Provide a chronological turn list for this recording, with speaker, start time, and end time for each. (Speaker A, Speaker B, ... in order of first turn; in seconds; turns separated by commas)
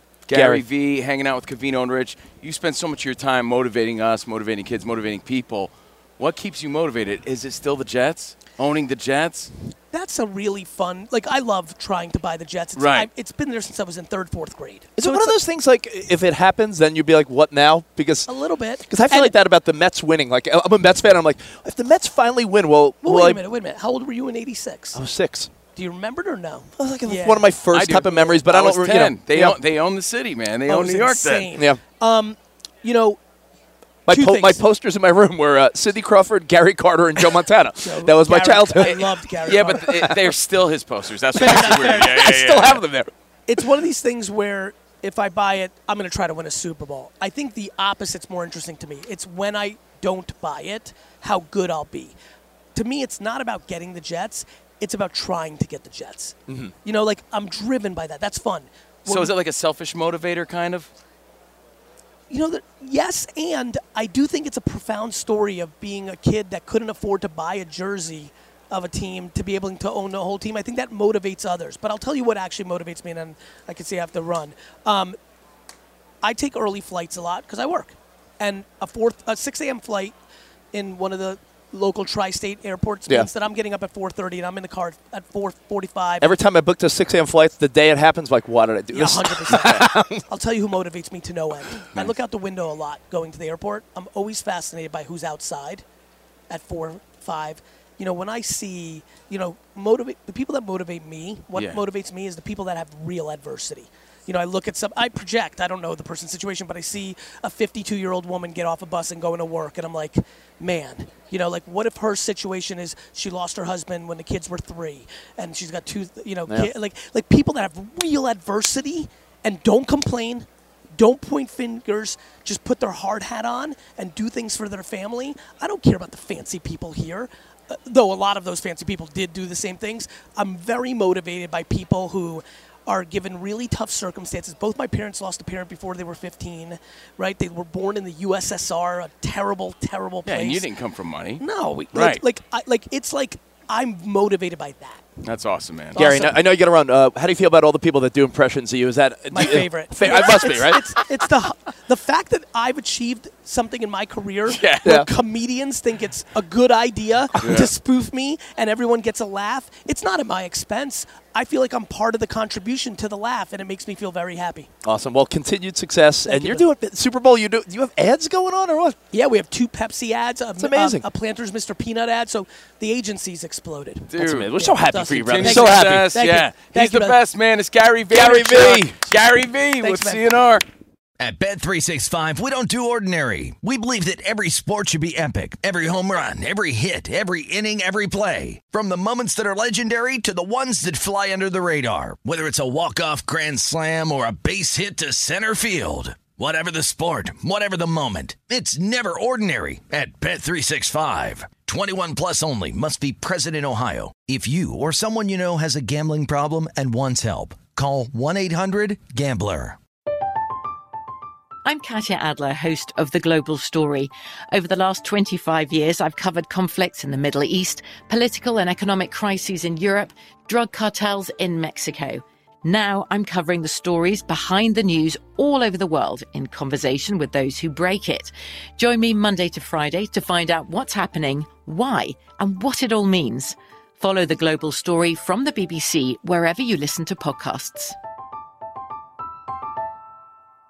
Speaker A: 0.3-9.5, Speaker B: 0.3-0.6, Speaker C: 9.9-15.4, Speaker A: 12.8-13.1, Speaker B: 15.0-23.4, Speaker C: 18.3-19.3, Speaker C: 23.0-25.0, Speaker B: 24.9-25.5, Speaker C: 25.7-27.6, Speaker B: 26.7-29.6, Speaker A: 27.7-31.5, Speaker C: 28.1-28.4, Speaker C: 30.7-33.2, Speaker B: 31.6-31.8, Speaker B: 34.1-40.3, Speaker C: 34.1-34.6, Speaker C: 37.8-40.1, Speaker A: 38.8-42.8, Speaker B: 41.3-43.1, Speaker C: 41.4-42.0, Speaker C: 43.5-52.2, Speaker C: 52.8-59.4, Speaker B: 56.5-56.7, Speaker A: 59.0-60.9, Speaker C: 62.3-75.2, Speaker C: 76.2-80.1, Speaker C: 80.7-86.3, Speaker B: 86.2-90.3, Speaker C: 88.9-95.8, Speaker C: 96.5-140.7, Speaker A: 101.5-101.8, Speaker A: 140.2-142.2, Speaker C: 141.4-145.1, Speaker A: 145.2-146.0, Speaker C: 145.9-146.4, Speaker B: 145.9-151.0, Speaker C: 149.3-164.7, Speaker A: 154.5-154.9, Speaker A: 157.4-157.7, Speaker B: 164.8-169.0, Speaker C: 166.2-166.7, Speaker C: 169.1-177.2, Speaker B: 170.6-171.1, Speaker A: 174.1-174.5, Speaker B: 174.2-176.2, Speaker A: 175.1-180.6, Speaker B: 178.1-179.0, Speaker C: 179.8-180.4, Speaker D: 181.2-209.8, Speaker E: 211.7-238.0